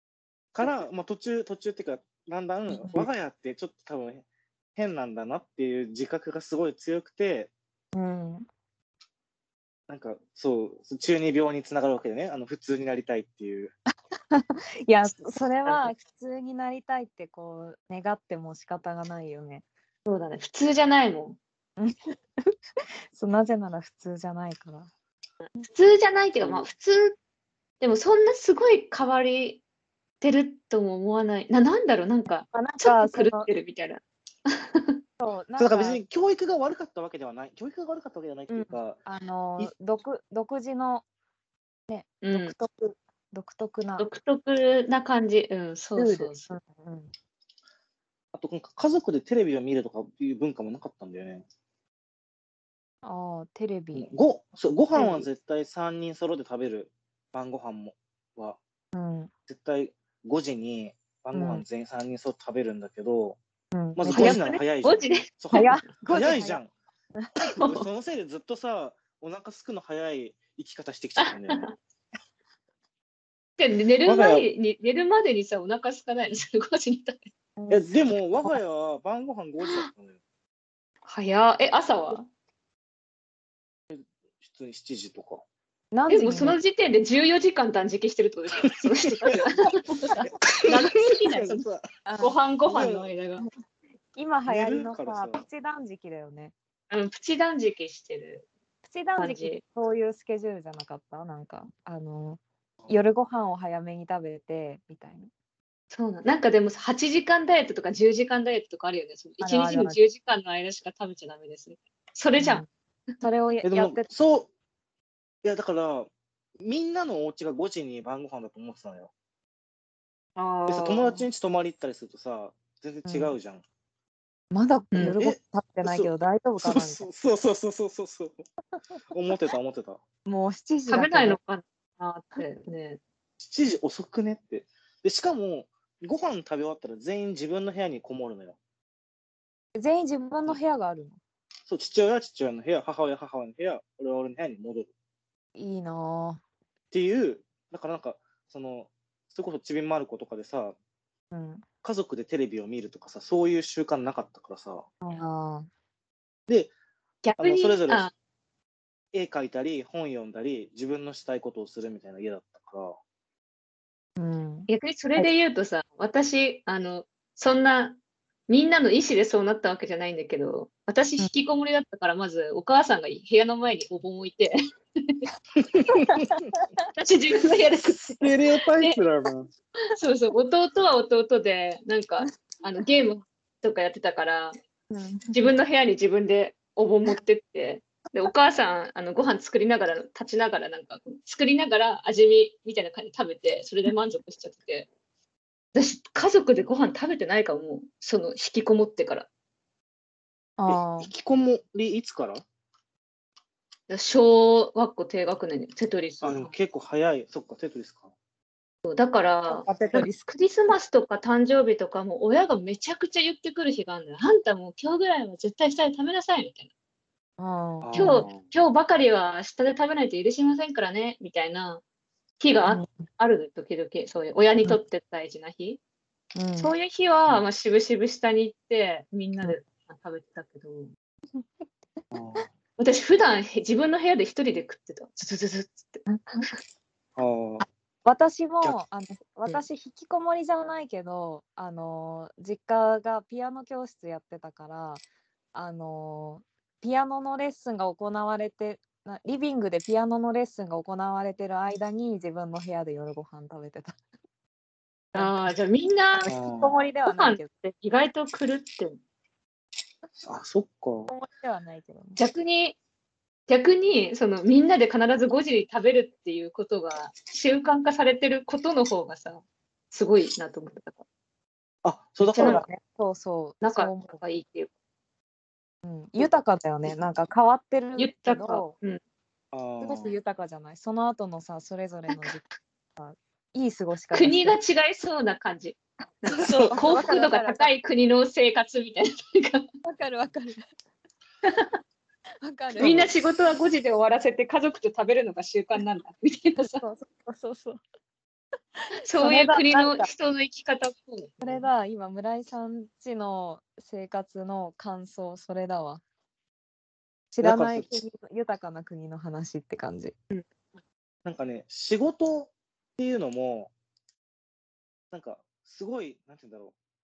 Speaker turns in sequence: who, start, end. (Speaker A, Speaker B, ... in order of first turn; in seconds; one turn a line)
Speaker A: 0.5-7.5
Speaker B: 2.7-3.1
Speaker B: 7.9-8.5
Speaker A: 9.9-13.7
Speaker B: 14.3-19.6
Speaker C: 15.6-15.9
Speaker C: 20.1-21.4
Speaker B: 23.1-24.9
Speaker C: 25.6-27.1
Speaker C: 27.8-29.6
Speaker C: 30.2-35.0
Speaker B: 32.5-33.5
Speaker B: 35.2-36.0
Speaker A: 35.6-39.0
Speaker B: 38.5-41.0
Speaker B: 41.9-44.0
Speaker C: 42.2-42.5
Speaker C: 44.0-46.5
Speaker B: 46.0-47.1
Speaker A: 48.3-51.4
Speaker B: 53.0-54.1
Speaker A: 53.9-58.6
Speaker C: 54.9-55.3
Speaker B: 58.9-59.3
Speaker A: 59.5-63.4
Speaker B: 61.3-61.6
Speaker B: 63.7-64.5
Speaker A: 64.0-66.7
Speaker C: 64.1-65.7
Speaker B: 65.5-66.6
Speaker A: 67.6-71.7
Speaker C: 71.2-71.7
Speaker C: 73.6-77.2
Speaker A: 74.0-74.5
Speaker B: 77.6-78.5
Speaker A: 77.7-80.2
Speaker C: 81.0-82.2
Speaker A: 83.9-85.4
Speaker B: 85.9-86.6
Speaker C: 86.1-91.6
Speaker A: 90.5-91.9
Speaker B: 92.0-92.3
Speaker C: 92.2-93.4
Speaker A: 92.7-93.1
Speaker B: 94.1-96.5
Speaker A: 94.5-95.4
Speaker C: 96.9-98.5
Speaker B: 98.8-105.3
Speaker C: 99.2-99.6
Speaker C: 105.9-112.6
Speaker B: 109.4-110.0
Speaker B: 112.4-112.7
Speaker B: 113.2-114.1
Speaker A: 113.6-114.5
Speaker A: 115.4-116.1
Speaker A: 116.6-119.1
Speaker C: 120.3-121.2
Speaker A: 120.7-123.6
Speaker B: 123.0-123.3
Speaker B: 124.5-127.1
Speaker A: 125.0-128.4
Speaker A: 129.1-130.0
Speaker B: 130.2-131.4
Speaker C: 130.9-133.0
Speaker A: 133.4-138.6
Speaker B: 139.7-141.2
Speaker A: 141.7-144.9
Speaker B: 145.6-146.4
Speaker A: 146.9-150.7
Speaker B: 151.3-151.6
Speaker A: 151.8-154.9
Speaker B: 155.0-155.7
Speaker C: 157.2-158.1
Speaker A: 157.4-158.1
Speaker A: 159.1-163.0
Speaker B: 164.2-165.3
Speaker C: 164.7-175.2
Speaker A: 175.6-176.2
Speaker B: 176.0-176.6
Speaker C: 176.9-179.0
Speaker A: 177.7-179.5
Speaker C: 179.9-184.5
Speaker B: 184.9-185.5
Speaker C: 185.3-194.9
Speaker C: 195.7-199.3
Speaker B: 200.6-201.1
Speaker A: 200.7-202.4
Speaker C: 203.9-206.5
Speaker A: 206.2-208.1
Speaker C: 208.8-216.7
Speaker B: 209.5-210.3
Speaker B: 217.4-218.3
Speaker A: 217.8-218.5
Speaker C: 217.9-221.8
Speaker C: 222.4-225.8
Speaker B: 226.3-226.7
Speaker C: 226.6-230.9
Speaker A: 232.1-232.5
Speaker C: 232.8-236.1
Speaker A: 237.2-237.6
Speaker B: 237.6-245.0
Speaker B: 245.5-254.0
Speaker B: 255.1-255.5
Speaker C: 255.1-256.3
Speaker B: 256.2-257.5
Speaker A: 256.3-256.8
Speaker C: 257.1-259.0
Speaker A: 260.2-261.1
Speaker B: 261.1-262.2
Speaker C: 262.1-262.8
Speaker C: 263.5-271.0
Speaker A: 271.8-272.6
Speaker C: 272.2-272.6
Speaker B: 272.4-274.2
Speaker C: 273.6-274.7
Speaker B: 275.8-278.7
Speaker C: 278.0-279.0
Speaker A: 279.5-280.1
Speaker B: 279.8-282.4
Speaker B: 282.9-284.5
Speaker C: 284.1-289.6
Speaker B: 286.5-287.7
Speaker B: 289.8-290.6
Speaker B: 292.4-293.1
Speaker C: 292.8-296.8
Speaker A: 292.8-293.1
Speaker B: 296.6-297.8
Speaker C: 299.1-301.7
Speaker B: 299.1-300.1
Speaker B: 301.4-306.0
Speaker B: 307.3-310.1
Speaker A: 307.4-307.9
Speaker A: 311.2-313.7
Speaker A: 315.1-316.7